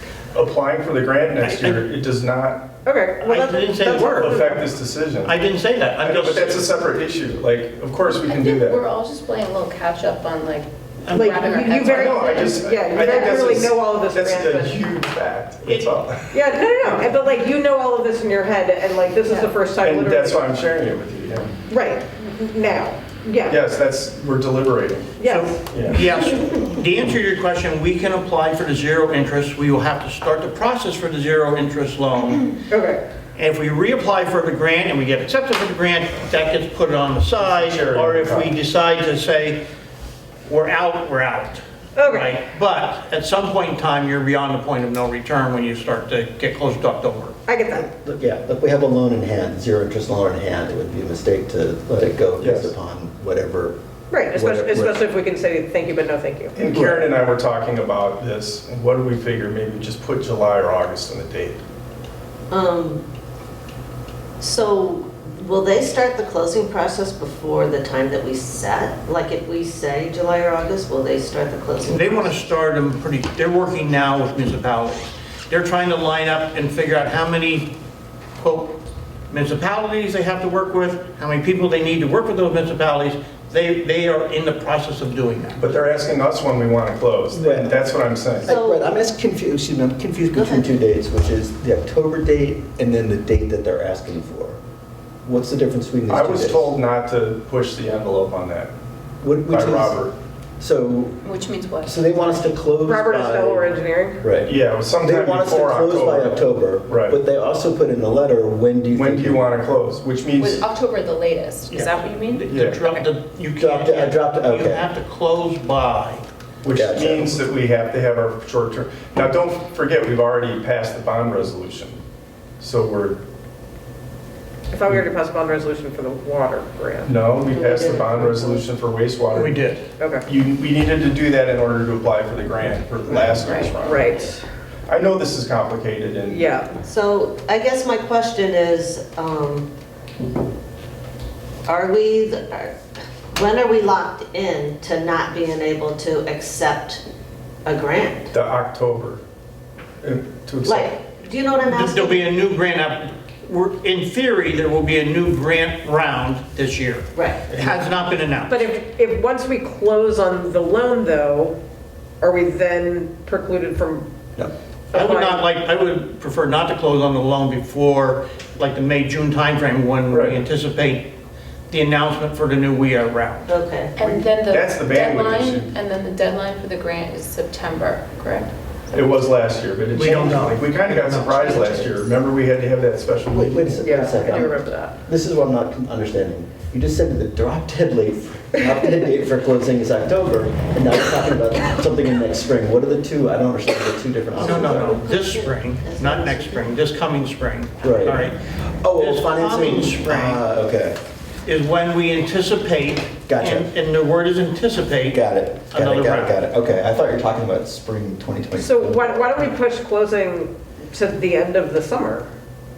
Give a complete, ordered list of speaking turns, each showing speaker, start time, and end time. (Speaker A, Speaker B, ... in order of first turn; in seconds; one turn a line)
Speaker A: 0.3-2.7
Speaker B: 1.4-1.8
Speaker C: 2.8-4.5
Speaker B: 3.2-4.5
Speaker A: 4.2-5.3
Speaker B: 5.2-6.7
Speaker A: 6.0-8.8
Speaker D: 8.2-12.7
Speaker B: 11.0-12.3
Speaker C: 11.1-14.8
Speaker A: 11.9-17.1
Speaker B: 15.7-16.0
Speaker C: 16.3-20.4
Speaker A: 19.8-21.5
Speaker C: 21.7-23.6
Speaker A: 23.5-25.2
Speaker C: 25.2-25.6
Speaker B: 25.2-32.6
Speaker A: 25.7-26.0
Speaker C: 32.7-33.0
Speaker B: 33.4-39.6
Speaker A: 37.4-38.5
Speaker B: 40.5-47.4
Speaker C: 42.0-42.4
Speaker C: 47.5-47.9
Speaker E: 47.7-53.8
Speaker A: 52.4-52.7
Speaker C: 54.1-57.0
Speaker E: 54.3-55.0
Speaker A: 56.5-61.6
Speaker F: 62.5-63.0
Speaker F: 64.4-72.4
Speaker B: 71.8-77.8
Speaker B: 78.4-85.6
Speaker A: 85.6-88.5
Speaker E: 87.3-87.8
Speaker E: 88.4-94.6
Speaker F: 88.4-88.9
Speaker F: 90.3-90.7
Speaker E: 95.2-96.7
Speaker A: 96.1-98.7
Speaker E: 99.2-100.0
Speaker A: 99.5-100.1
Speaker E: 100.6-101.2
Speaker D: 101.2-102.3
Speaker E: 101.8-109.4
Speaker C: 102.8-104.2
Speaker A: 104.5-107.2
Speaker A: 109.0-110.7
Speaker D: 110.4-112.5
Speaker B: 111.7-116.2
Speaker A: 112.5-112.8
Speaker E: 113.6-114.9
Speaker A: 116.6-122.0
Speaker E: 116.7-117.4
Speaker A: 122.6-123.2
Speaker C: 124.7-127.1
Speaker A: 127.0-129.6
Speaker F: 127.5-128.6
Speaker B: 129.3-129.9
Speaker C: 130.0-130.3
Speaker A: 130.3-134.3
Speaker D: 133.4-133.7
Speaker C: 133.8-134.4
Speaker A: 134.9-136.5
Speaker C: 136.3-136.8
Speaker F: 136.8-139.7
Speaker F: 141.7-142.8
Speaker F: 143.3-147.0
Speaker F: 147.7-148.3
Speaker A: 148.3-149.2
Speaker A: 150.0-150.9
Speaker F: 150.6-152.3
Speaker B: 151.7-158.7
Speaker F: 157.2-157.4
Speaker C: 158.5-161.6
Speaker C: 162.2-164.1
Speaker C: 164.9-165.4
Speaker B: 164.9-171.1
Speaker A: 170.1-170.4
Speaker B: 171.7-173.5
Speaker F: 173.5-173.9
Speaker D: 174.0-179.1
Speaker A: 174.0-175.7
Speaker A: 178.9-183.9
Speaker B: 179.9-181.6
Speaker D: 181.3-181.8
Speaker E: 183.3-195.0
Speaker C: 183.8-185.0
Speaker F: 194.3-196.8
Speaker B: 194.3-198.4
Speaker E: 197.8-201.0
Speaker B: 198.9-200.4
Speaker B: 201.4-206.4
Speaker E: 203.3-203.7
Speaker E: 205.1-209.5
Speaker C: 208.6-212.3